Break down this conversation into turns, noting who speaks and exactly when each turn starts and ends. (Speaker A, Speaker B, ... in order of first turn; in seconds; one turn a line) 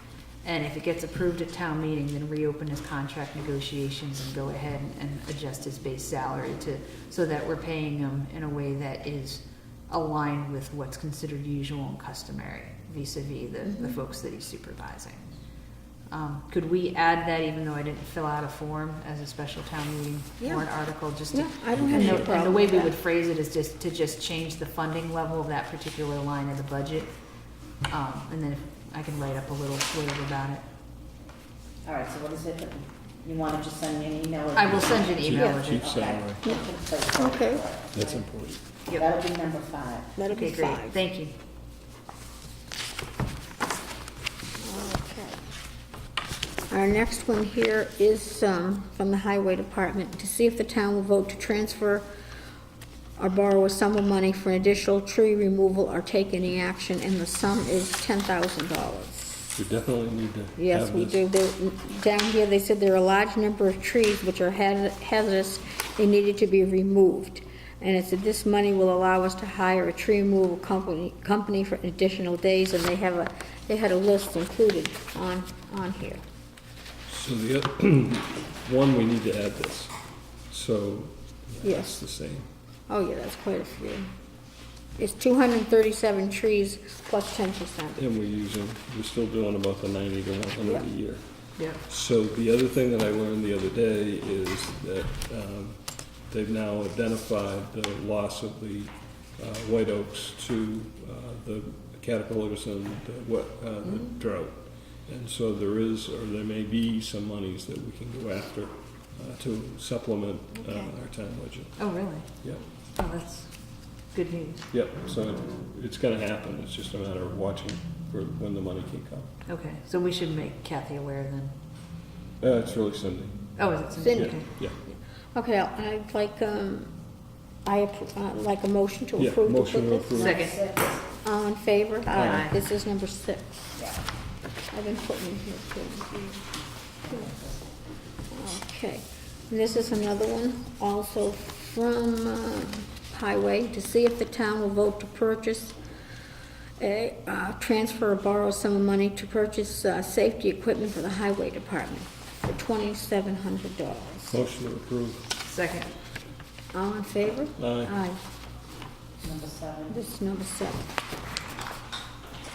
Speaker A: 0.4-15.2
Speaker B: 13.6-14.0
Speaker A: 16.1-21.4
Speaker B: 20.4-20.7
Speaker B: 21.3-22.9
Speaker C: 21.8-22.4
Speaker A: 22.4-27.1
Speaker A: 27.9-30.6
Speaker D: 31.8-40.3
Speaker A: 34.6-35.3
Speaker C: 34.6-36.4
Speaker B: 35.3-35.6
Speaker B: 36.4-37.6
Speaker C: 37.9-38.6
Speaker B: 40.2-41.0
Speaker A: 40.4-41.3
Speaker B: 44.6-45.5
Speaker B: 46.7-52.0
Speaker B: 53.2-59.5
Speaker C: 59.6-61.2
Speaker B: 60.6-76.2
Speaker C: 77.1-79.9
Speaker C: 80.5-82.5
Speaker B: 81.6-82.0
Speaker B: 82.9-84.1
Speaker B: 85.0-88.0
Speaker C: 88.0-112.6
Speaker A: 111.8-112.2
Speaker A: 113.0-113.4
Speaker A: 114.1-114.6
Speaker C: 114.7-119.3
Speaker A: 119.5-121.5
Speaker C: 122.4-124.8
Speaker A: 123.6-124.5
Speaker B: 124.0-126.9
Speaker B: 127.6-130.5
Speaker C: 129.2-130.4
Speaker D: 130.1-131.0
Speaker B: 131.2-133.7
Speaker C: 132.1-132.5
Speaker D: 133.8-134.0
Speaker B: 134.7-136.1
Speaker D: 136.1-137.7
Speaker B: 138.3-145.7
Speaker B: 146.8-154.4
Speaker C: 154.3-155.3
Speaker A: 155.5-155.8
Speaker B: 156.7-158.2
Speaker C: 157.6-157.9
Speaker D: 159.2-160.0
Speaker B: 159.9-160.9